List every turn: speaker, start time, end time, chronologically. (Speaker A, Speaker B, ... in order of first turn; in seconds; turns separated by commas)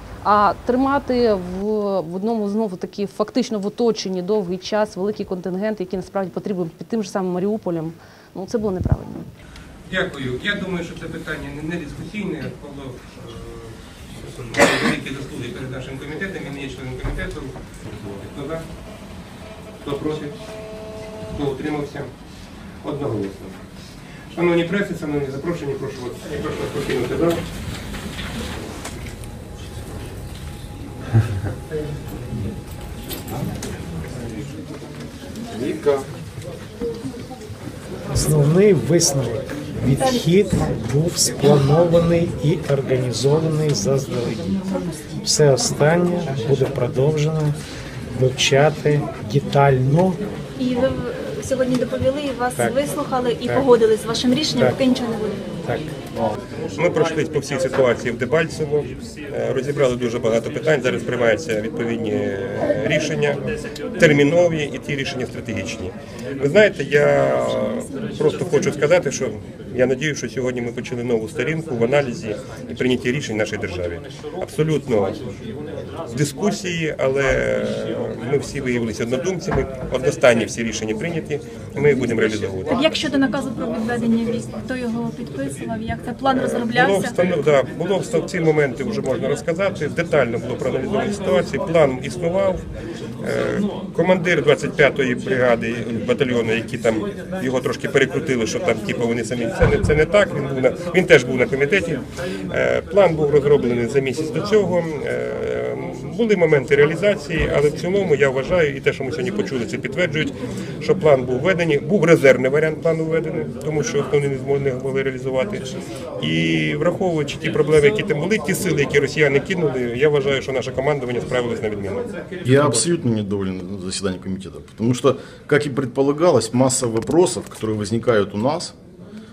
Speaker A: 0.2-9.3, Speaker B: 9.9-18.6, Speaker B: 19.8-20.3, Speaker B: 21.3-22.1, Speaker B: 22.8-23.6, Speaker B: 24.3-27.4, Speaker C: 38.1-44.6, Speaker D: 40.0-40.2, Speaker C: 45.2-47.5, Speaker C: 48.1-50.2, Speaker D: 50.6-55.5, Speaker C: 53.4-53.7, Speaker C: 55.6-55.9, Speaker B: 56.8-63.4, Speaker B: 63.9-75.2, Speaker B: 76.1-82.8, Speaker D: 82.7-87.1, Speaker B: 86.2-92.6, Speaker B: 93.2-115.7, Speaker B: 116.2-122.1, Speaker E: 122.4-128.7